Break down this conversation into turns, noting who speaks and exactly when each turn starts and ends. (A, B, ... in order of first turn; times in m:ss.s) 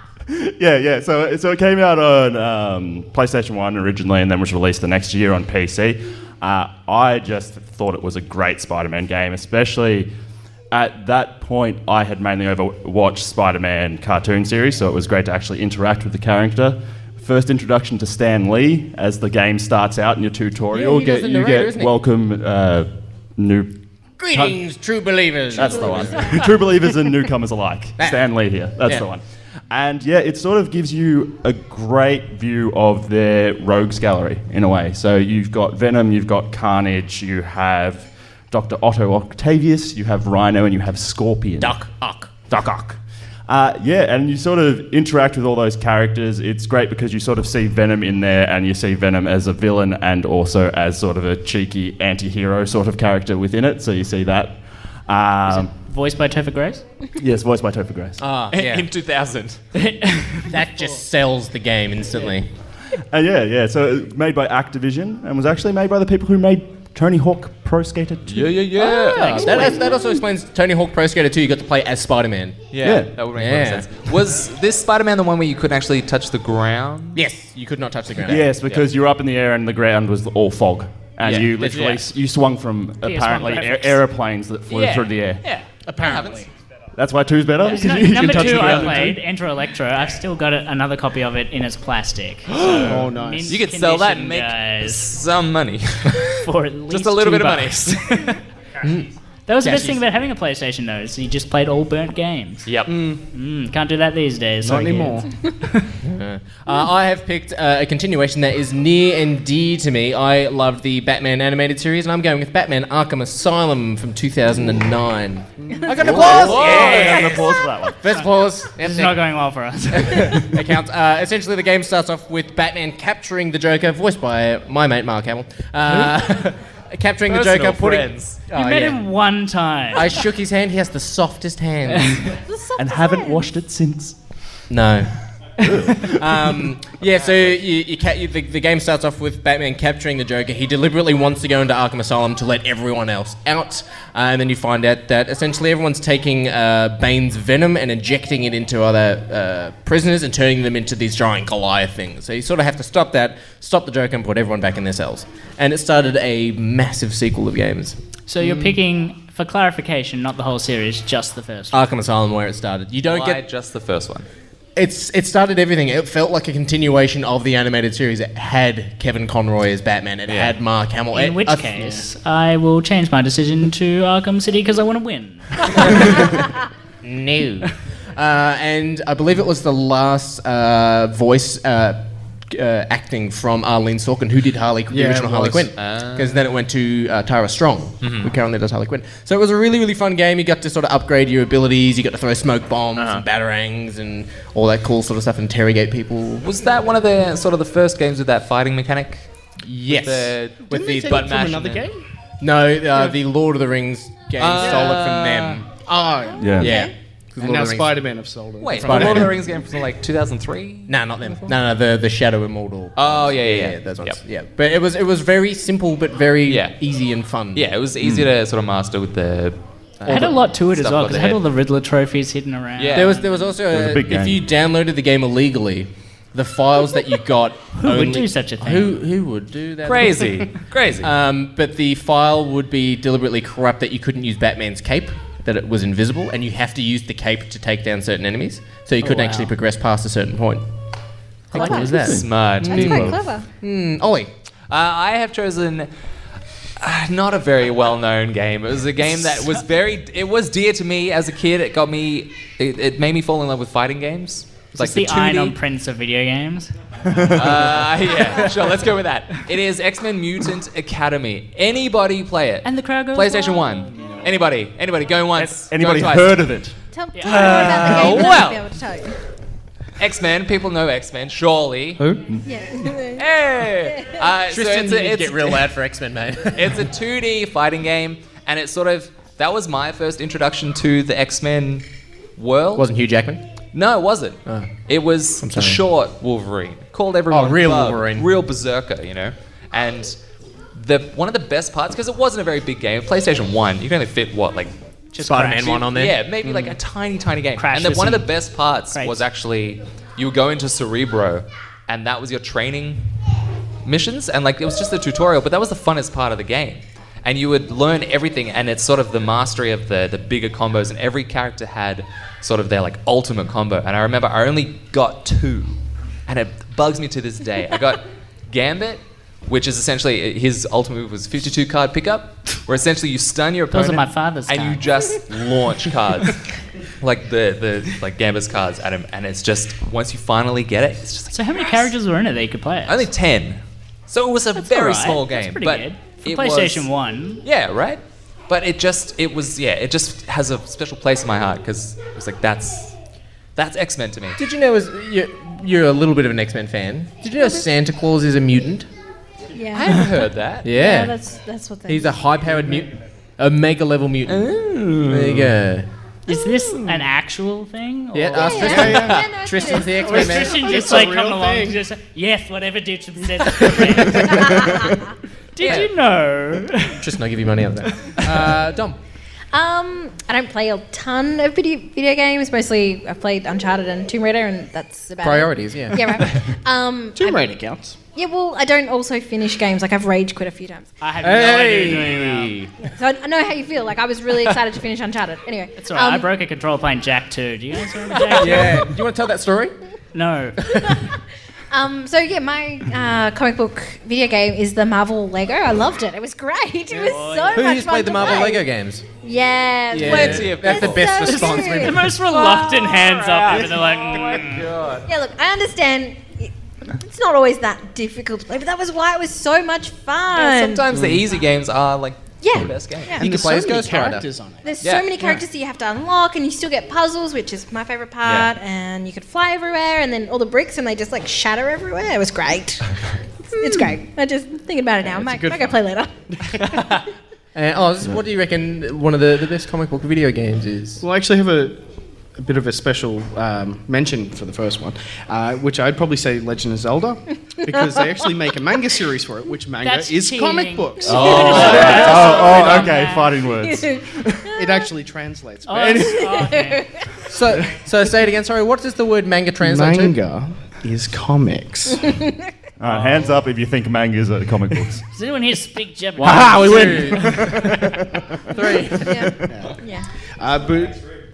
0:00.3-0:10.1 A
0:10.7-0:23.7 A
0:20.7-0:21.9 B
0:24.2-0:26.4 B
0:24.3-0:24.6 A
0:25.5-0:41.8 A
0:25.6-0:26.4 C
0:41.6-0:43.0 B
0:42.5-0:42.8 A
0:43.5-0:54.6 A
0:55.1-0:55.7 A
0:55.5-0:56.8 D
0:57.2-0:58.2 A
0:58.2-0:58.9 B
0:58.5-0:59.6 E
0:59.8-1:00.6 D
1:00.5-1:02.5 B
1:03.1-1:08.6 A
1:08.3-1:09.4 E
1:08.8-1:12.6 B
1:09.2-1:09.8 D
1:09.2-1:09.6 C
1:12.7-1:17.2 E
1:12.8-1:13.1 A
1:13.4-1:13.9 B
1:17.1-1:18.5 B
1:18.2-1:25.4 A
1:21.2-1:22.0 E
1:21.6-1:21.9 B
1:23.0-1:24.0 D
1:24.8-1:25.0 D
1:25.4-1:26.5 E
1:25.8-1:26.5 B
1:26.9-1:29.2 A
1:27.6-1:35.2 D
1:27.8-1:29.1 E
1:32.6-1:32.9 E
1:32.6-1:33.6 F
1:33.5-1:36.3 E
1:36.2-1:38.4 D
1:36.9-1:38.3 E
1:38.8-1:39.1 B
1:39.5-1:42.7 D
1:39.6-1:40.0 B
1:42.6-1:42.9 E
1:42.9-1:43.2 F
1:43.3-1:45.9 D
1:44.6-1:45.3 F
1:46.0-1:57.5 B
1:56.0-1:58.0 A
1:56.2-1:57.4 E
1:58.0-1:59.2 B
1:58.1-2:00.6 D
1:59.9-2:09.0 B
2:07.3-2:08.4 E
2:08.5-2:10.2 D
2:09.9-2:12.2 B
2:11.9-2:12.2 D
2:12.5-2:13.5 C
2:12.8-2:14.2 A
2:14.7-2:15.1 B
2:15.6-2:16.2 A
2:15.9-2:38.0 B
2:17.2-2:17.5 E
2:38.3-2:41.8 D
2:38.4-2:38.7 F
2:41.7-2:43.4 B
2:43.1-2:44.3 E
2:44.8-2:52.0 B
2:50.3-2:50.6 E
2:51.1-2:56.3 D
2:57.0-3:16.5 B
3:04.9-3:05.7 F
3:05.8-3:06.4 E
3:08.0-3:08.3 E
3:13.0-3:13.2 E
3:16.4-3:19.3 E
3:19.6-3:21.3 B
3:19.9-3:21.9 E
3:20.6-3:22.0 F
3:22.4-3:25.7 B
3:24.4-3:25.6 E
3:24.6-3:25.0 F
3:25.9-3:26.5 F
3:26.3-3:26.9 C
3:26.4-3:26.8 A
3:26.6-3:28.0 B
3:27.4-3:29.3 F
3:28.6-3:30.9 E
3:28.8-3:29.4 B
3:30.9-3:37.7 B
3:33.0-3:34.2 E
3:36.5-3:36.7 E
3:37.5-3:41.4 E
3:40.1-3:43.5 D
3:42.8-3:43.1 E
3:42.9-3:50.3 B
3:43.7-3:44.4 A
3:47.7-3:49.0 D
3:49.8-3:51.1 E
3:51.0-4:00.6 B
3:59.0-3:59.5 D
4:01.5-4:03.4 C
4:01.5-4:04.3 B
4:01.6-4:03.2 A
4:01.8-4:03.1 E
4:04.7-4:05.9 E
4:06.8-4:15.6 E
4:14.8-4:16.7 D
4:17.0-4:17.6 A
4:17.3-4:26.5 E
4:22.6-4:23.8 D
4:23.9-4:24.3 F
4:25.4-4:28.1 A
4:26.9-4:29.2 C
4:27.1-4:27.9 D
4:27.8-4:28.6 E
4:30.0-4:32.0 E
4:32.5-4:33.2 C
4:33.1-4:35.7 E
4:34.5-4:36.9 B
4:36.5-4:41.8 E
4:42.4-4:42.9 E
4:42.8-4:43.4 B
4:43.7-4:50.2 E
4:44.4-4:44.7 B
4:45.4-4:45.8 B
4:47.3-4:48.3 B
4:50.7-4:54.7 E
4:55.1-4:55.9 D
4:55.2-4:56.2 B
4:55.8-5:03.0 E
4:57.6-4:58.3 D
4:58.9-4:59.2 D
5:03.8-5:26.4 E
5:23.7-5:24.8 D
5:27.0-5:31.9 E
5:31.3-5:33.1 D
5:32.9-5:36.9 E
5:34.5-5:37.4 D
5:37.4-5:43.0 E
5:43.6-5:44.4 E
5:44.4-5:48.9 B
5:49.5-5:50.1 C
5:49.7-5:50.7 E
5:50.6-5:51.1 B
5:50.7-5:52.1 C
5:51.9-5:55.9 B
5:54.3-5:55.5 E
5:56.3-5:58.9 D
5:56.7-5:57.0 E
5:58.1-6:00.8 B
5:58.4-6:00.5 C
5:58.7-5:59.2 F
5:58.9-5:59.2 E
6:00.0-6:04.6 D
6:00.1-6:01.8 F
6:04.2-6:05.0 C
6:05.5-6:07.1 D
6:05.6-6:05.9 E
6:07.0-6:09.0 B
6:09.5-6:17.4 C
6:15.2-6:16.0 B
6:17.1-6:18.0 F
6:18.1-6:20.9 C
6:21.0-6:22.7 D
6:21.2-6:22.7 B
6:22.8-6:26.3 C
6:25.8-6:28.9 D
6:28.2-6:28.7 E
6:28.4-6:29.7 B
6:30.1-6:30.7 D
6:30.7-6:31.0 B
6:31.7-6:38.6 C
6:36.9-6:39.0 B
6:37.1-6:37.6 D
6:39.2-6:42.0 C
6:39.9-6:42.1 B
6:39.9-6:41.4 E
6:41.5-6:44.7 D
6:42.3-6:45.0 E
6:45.0-6:50.9 C
6:50.3-6:53.2 E
6:52.4-6:53.3 C
6:53.2-6:54.2 B
6:53.2-6:54.7 F
6:54.6-7:02.8 C
6:54.8-6:55.1 E
6:58.2-6:58.5 E
7:03.5-7:06.2 C
7:05.0-7:05.8 F
7:06.6-7:07.0 E
7:07.5-7:11.0 B
7:11.0-7:22.9 F
7:19.8-7:23.3 D
7:21.0-7:24.5 A
7:21.1-7:22.4 E
7:23.4-7:24.5 C
7:24.5-7:26.4 F
7:25.6-7:26.8 D
7:26.2-7:26.8 C
7:27.3-7:30.1 B
7:29.6-7:32.1 F
7:32.8-7:35.0 A
7:32.9-7:33.3 D
7:35.1-7:37.3 D
7:36.2-7:39.3 B
7:37.4-7:37.8 A
7:38.5-7:40.1 C
7:39.5-7:39.8 F
7:40.4-7:41.0 F